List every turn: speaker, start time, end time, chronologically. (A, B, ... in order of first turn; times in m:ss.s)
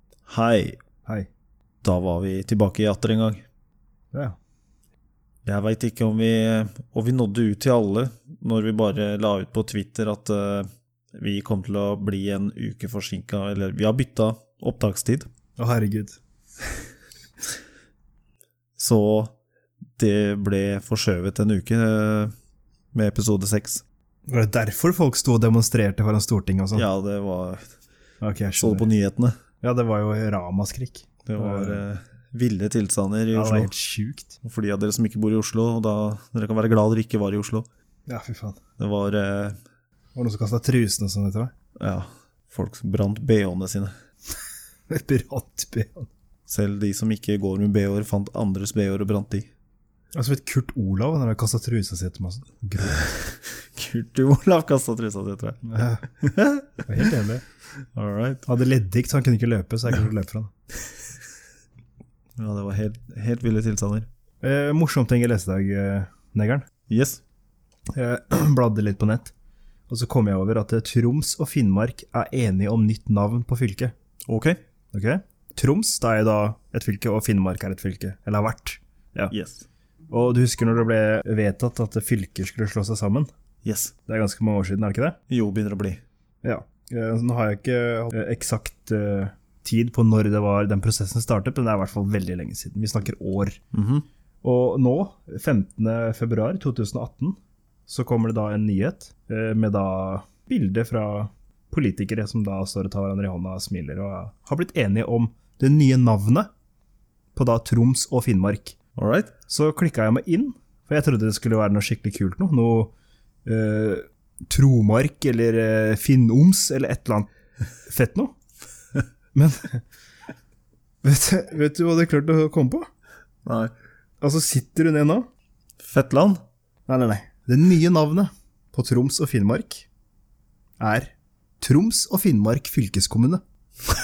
0:00.3-0:00.8 A
0:01.8-0:03.4 A
0:05.4-0:15.3 A
0:15.6-0:16.2 B
0:18.8-0:19.3 A
0:20.0-0:22.3 A
0:22.9-0:23.8 A
0:24.3-0:26.8 B
0:26.7-0:27.7 A
0:28.2-0:28.9 B
0:28.6-0:29.4 A
0:29.6-0:31.8 B
0:31.2-0:33.7 A
0:33.3-0:34.4 B
0:34.4-0:37.6 A
0:38.1-0:38.6 B
0:38.8-0:39.6 A
0:40.1-0:41.5 B
0:41.8-0:43.9 A
0:44.9-0:46.1 B
0:46.5-0:49.5 A
0:50.1-0:53.0 B
0:52.9-0:55.6 A
0:55.6-0:57.4 B
0:56.2-0:56.8 A
0:57.9-0:58.4 A
0:58.4-1:00.5 B
1:02.4-1:04.1 A
1:04.4-1:06.7 B
1:06.9-1:07.2 A
1:07.9-1:09.3 B
1:09.9-1:13.9 B
1:14.3-1:14.6 A
1:14.9-1:19.3 B
1:19.3-1:19.6 A
1:20.1-1:23.3 B
1:23.6-1:23.9 A
1:24.1-1:25.2 B
1:25.3-1:26.0 A
1:26.4-1:33.6 B
1:33.7-1:34.0 A
1:34.4-1:46.5 B
1:47.3-1:48.8 B
1:49.0-1:49.3 A
1:49.5-1:52.9 B
1:53.4-1:57.3 B
1:57.8-1:58.3 B
1:59.3-1:59.8 B
2:01.0-2:02.9 B
2:03.4-2:03.7 A
2:04.2-2:05.3 B
2:05.8-2:06.4 A
2:06.9-2:09.8 B
2:10.8-2:13.4 B